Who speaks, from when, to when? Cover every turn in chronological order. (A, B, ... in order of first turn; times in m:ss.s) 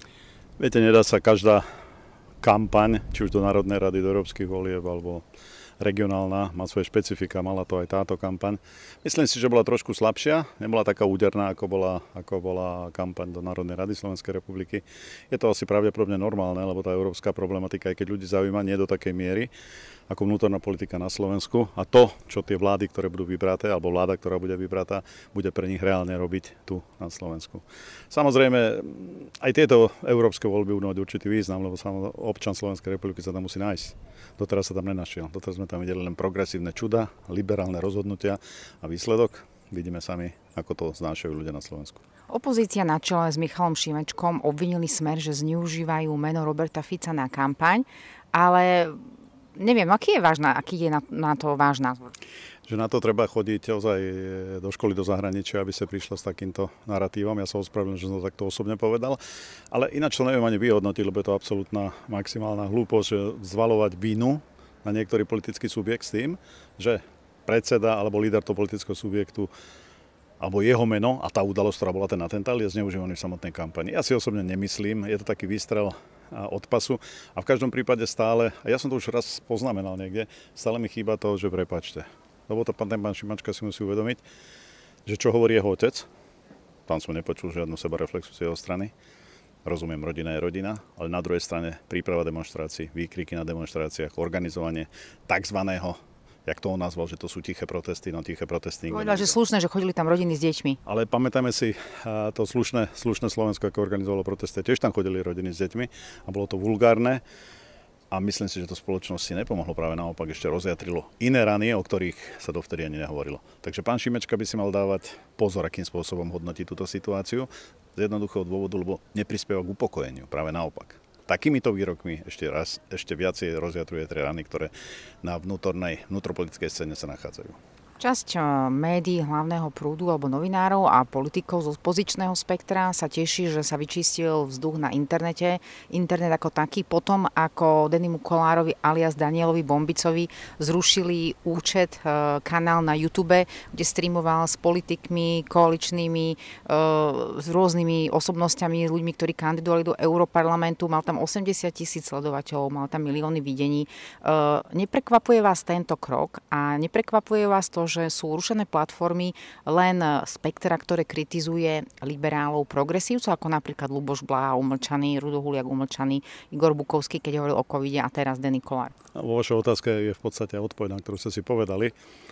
0:00.6-0:01.6 A
0:02.4-0:05.2 A
0:05.8-0:19.5 A
0:20.1-0:42.0 A
0:42.3-0:49.0 B
0:49.5-0:52.1 B
0:52.6-0:59.2 A
0:59.7-1:09.5 A
1:10.4-1:24.2 A
1:25.0-1:26.1 A
1:26.9-1:28.9 A
1:29.6-1:39.4 A
1:38.9-1:40.8 B
1:40.8-1:47.2 A
1:48.1-2:04.7 A
2:05.2-2:07.6 A
2:08.0-2:48.9 B
2:49.1-2:51.9 A